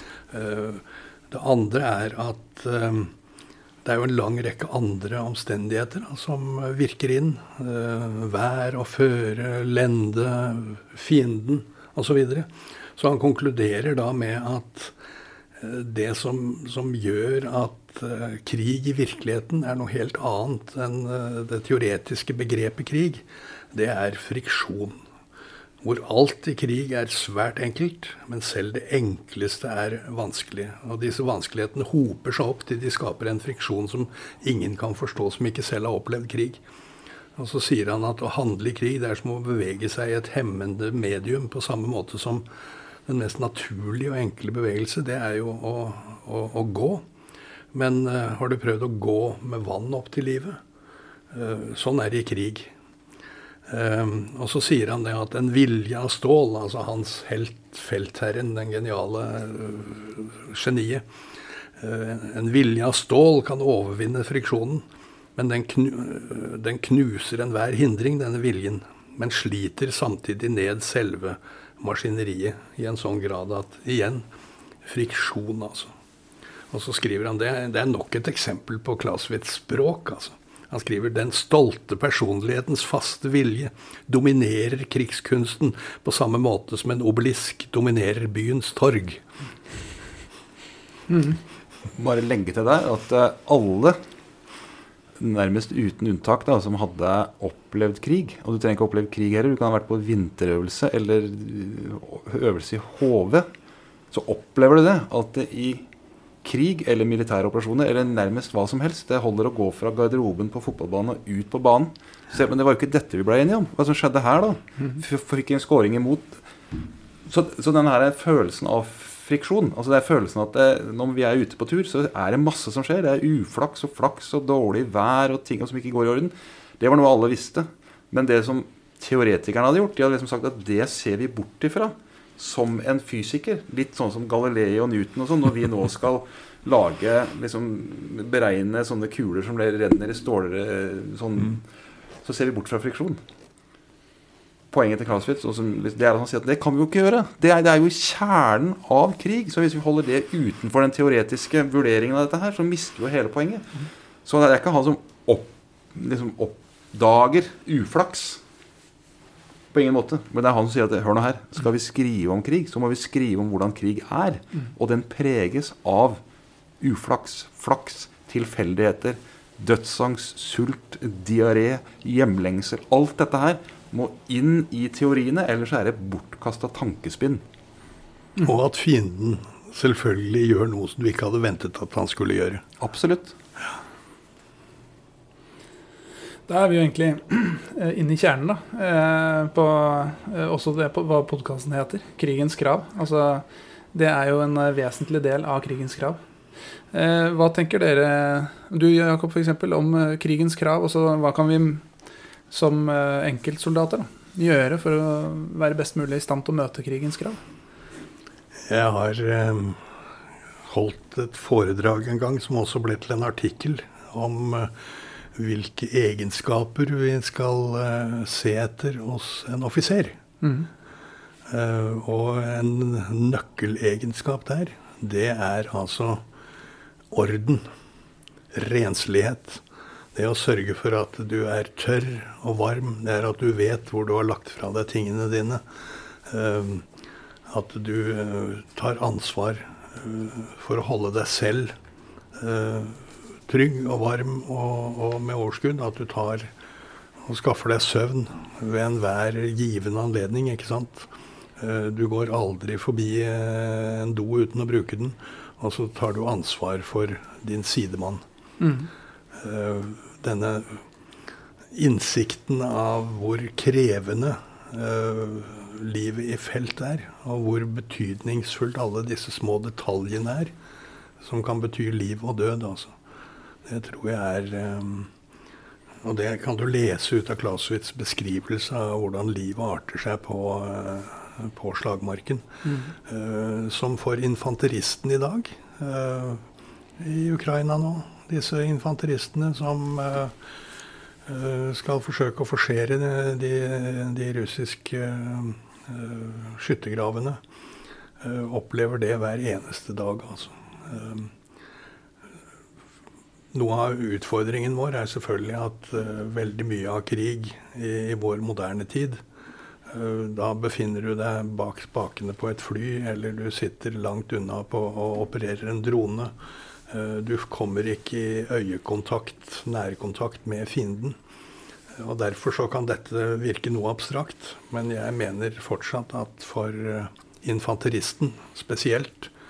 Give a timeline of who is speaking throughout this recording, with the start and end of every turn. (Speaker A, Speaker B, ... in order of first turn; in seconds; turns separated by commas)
Speaker A: 0.3-3.1, Speaker A: 3.8-14.9, Speaker A: 15.6-25.0, Speaker A: 25.8-36.6, Speaker A: 37.4-42.5, Speaker A: 43.1-47.0, Speaker A: 47.7-50.6, Speaker A: 51.3-52.7, Speaker A: 53.7-61.1, Speaker A: 61.8-64.8, Speaker A: 65.4-74.2, Speaker A: 74.8-75.9, Speaker A: 76.7-89.2, Speaker B: 91.9-94.0, Speaker B: 95.2-103.5, Speaker B: 104.1-105.9, Speaker B: 106.4-116.4, Speaker B: 117.3-141.6, Speaker B: 142.2-143.2, Speaker B: 144.7-153.7, Speaker B: 154.2-158.4, Speaker B: 159.7-166.2, Speaker B: 166.8-177.4, Speaker A: 178.4-182.7, Speaker B: 182.8-183.4, Speaker C: 186.5-196.2, Speaker C: 196.9-201.8, Speaker C: 202.5-207.4, Speaker A: 208.7-209.8, Speaker A: 210.7-214.8, Speaker A: 215.3-220.2, Speaker C: 220.4-220.7, Speaker A: 221.5-226.2, Speaker A: 227.1-227.6, Speaker A: 228.5-229.6, Speaker A: 230.1-235.6, Speaker A: 236.3-236.9, Speaker A: 237.5-241.8, Speaker A: 242.3-246.5, Speaker A: 247.2-258.2, Speaker C: 258.6-258.9, Speaker A: 259.3-260.8, Speaker A: 261.7-270.5, Speaker A: 271.2-273.0, Speaker A: 273.7-275.1, Speaker A: 276.0-282.5, Speaker C: 282.6-282.9, Speaker A: 283.0-286.4, Speaker A: 287.0-290.4, Speaker A: 291.3-297.4, Speaker A: 298.2-301.3, Speaker A: 303.5-309.2, Speaker A: 309.9-316.3, Speaker A: 316.9-321.2, Speaker A: 321.9-329.3